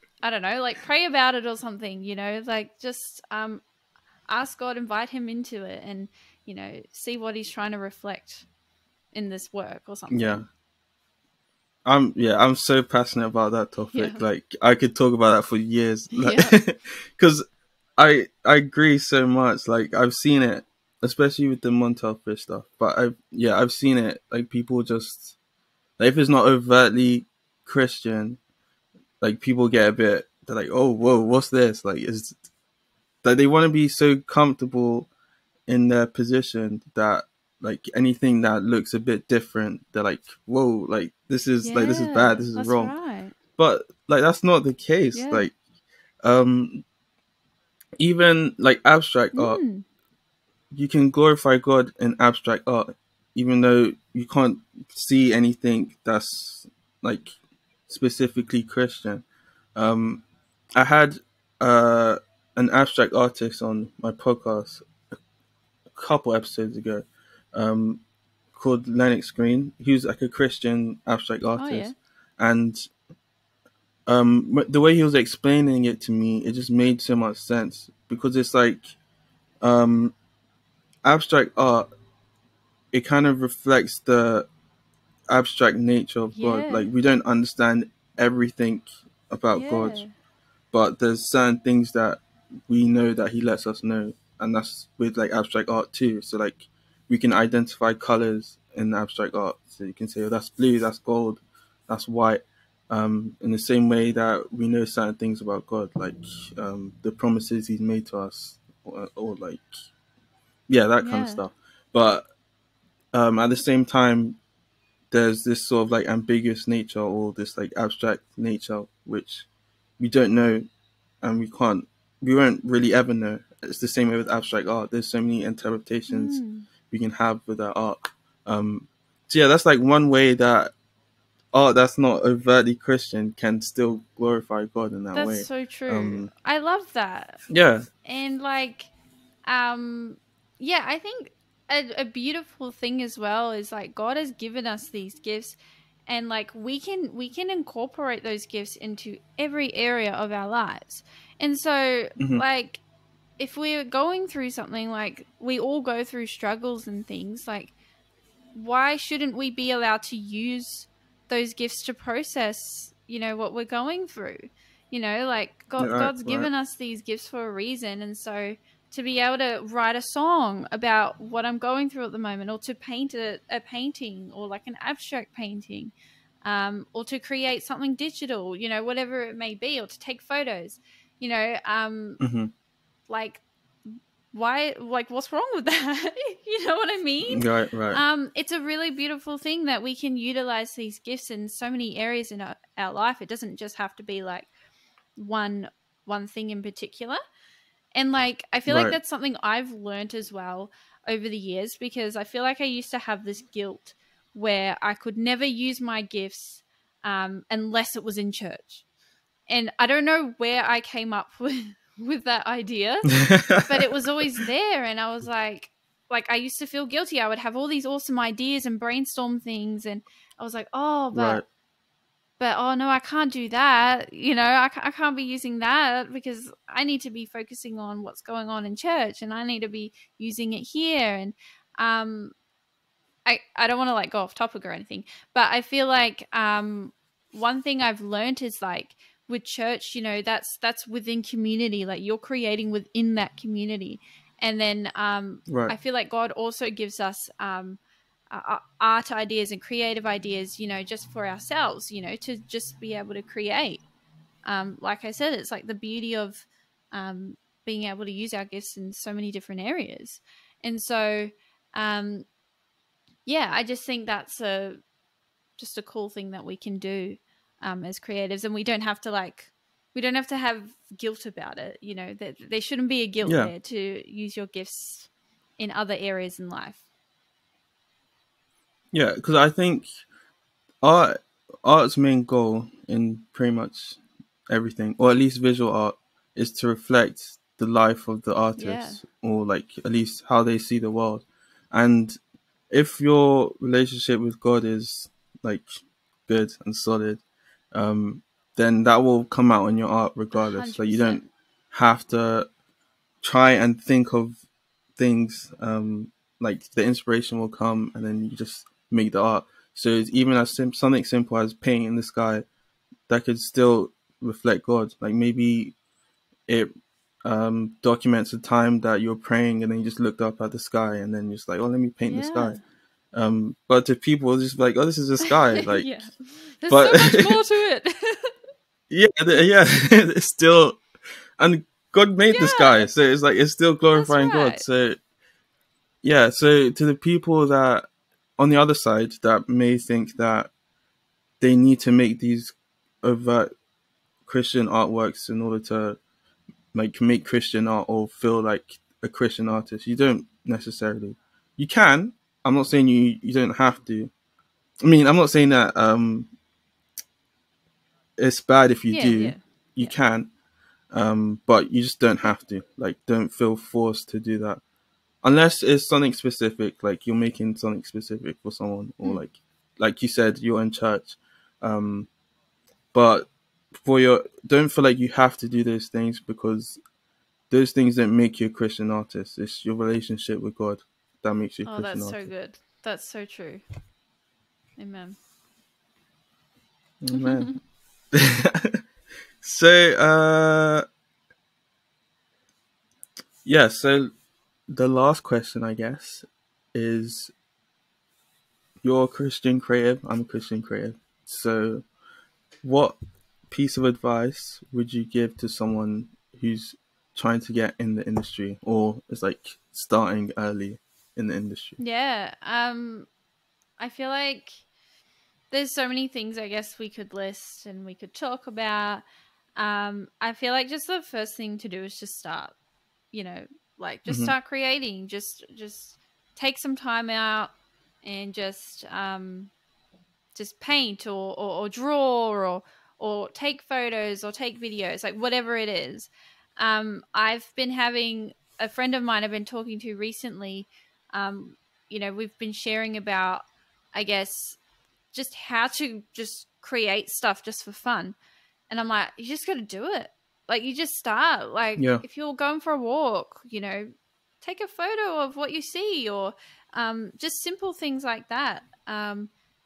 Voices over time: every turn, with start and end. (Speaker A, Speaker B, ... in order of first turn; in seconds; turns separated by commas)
Speaker A: 0.2-3.6, Speaker A: 4.3-8.4, Speaker A: 9.1-10.5, Speaker B: 10.1-10.4, Speaker B: 11.8-17.4, Speaker A: 13.9-14.2, Speaker A: 16.1-16.6, Speaker B: 18.0-25.4, Speaker B: 26.0-28.4, Speaker B: 29.2-32.4, Speaker B: 33.2-35.1, Speaker B: 35.7-42.9, Speaker A: 41.6-43.3, Speaker B: 43.6-45.5, Speaker A: 45.1-45.5, Speaker B: 46.2-46.8, Speaker B: 48.0-49.6, Speaker A: 49.3-49.8, Speaker B: 50.7-57.3, Speaker B: 57.9-60.2, Speaker B: 60.8-64.9, Speaker B: 65.9-68.0, Speaker B: 68.5-72.9, Speaker A: 71.6-71.9, Speaker B: 74.0-79.0, Speaker B: 79.6-80.1, Speaker B: 81.0-81.9, Speaker B: 82.9-84.5, Speaker B: 85.3-90.0, Speaker A: 86.3-86.9, Speaker A: 89.5-90.1, Speaker B: 90.7-109.7, Speaker B: 110.7-112.2, Speaker A: 111.0-111.4, Speaker B: 113.1-114.4, Speaker B: 115.1-119.5, Speaker B: 120.0-120.7, Speaker B: 121.2-130.7, Speaker A: 126.1-126.7, Speaker B: 131.5-136.3, Speaker A: 135.1-137.4, Speaker B: 137.5-137.9, Speaker A: 138.0-138.9, Speaker A: 139.4-145.6, Speaker A: 146.1-152.8, Speaker B: 152.2-152.4, Speaker A: 153.4-157.7, Speaker A: 158.5-175.9, Speaker B: 165.8-166.5, Speaker A: 176.4-182.2, Speaker B: 182.2-182.5, Speaker A: 183.1-194.5, Speaker B: 187.2-188.0, Speaker A: 195.2-197.2, Speaker A: 197.9-208.8, Speaker B: 198.7-198.9, Speaker A: 209.5-221.4, Speaker B: 213.1-213.9, Speaker B: 221.1-221.4, Speaker A: 222.4-232.3, Speaker A: 233.2-247.8, Speaker B: 245.5-245.8, Speaker A: 248.3-253.8, Speaker A: 254.4-262.2, Speaker A: 263.2-264.8, Speaker A: 265.6-276.8, Speaker B: 273.2-273.5, Speaker B: 278.9-280.0, Speaker B: 280.8-292.2, Speaker A: 288.6-289.0, Speaker B: 292.7-295.7, Speaker B: 296.3-297.2, Speaker B: 297.7-301.2, Speaker A: 300.3-301.3, Speaker B: 301.7-302.5, Speaker B: 303.2-304.4, Speaker B: 304.9-312.4, Speaker B: 313.1-315.7, Speaker B: 317.2-322.6, Speaker A: 322.1-322.6, Speaker B: 323.1-326.0, Speaker A: 325.2-328.4, Speaker B: 326.7-327.4, Speaker B: 328.9-330.8, Speaker B: 331.4-335.0, Speaker A: 332.3-332.9, Speaker A: 333.9-334.6, Speaker B: 336.0-340.5, Speaker B: 341.4-343.5, Speaker B: 344.2-346.0, Speaker B: 346.7-354.1, Speaker B: 354.8-356.3, Speaker B: 358.2-360.3, Speaker A: 358.9-359.9, Speaker B: 360.9-364.6, Speaker B: 365.2-372.1, Speaker B: 372.9-376.8, Speaker B: 377.5-382.3, Speaker A: 381.6-383.6, Speaker A: 384.8-385.2, Speaker B: 387.0-387.6, Speaker A: 387.1-387.6, Speaker B: 388.1-388.8, Speaker B: 389.4-390.8, Speaker B: 393.4-394.1, Speaker B: 394.7-397.3, Speaker B: 398.8-401.8, Speaker B: 402.6-402.9, Speaker B: 403.5-411.8, Speaker A: 411.8-413.1, Speaker A: 413.8-414.6, Speaker A: 415.5-419.0, Speaker A: 419.6-422.5, Speaker A: 423.1-427.5, Speaker B: 424.1-424.3, Speaker A: 428.0-429.5, Speaker A: 430.3-444.6, Speaker A: 445.1-448.1, Speaker A: 448.7-459.3, Speaker B: 451.8-452.0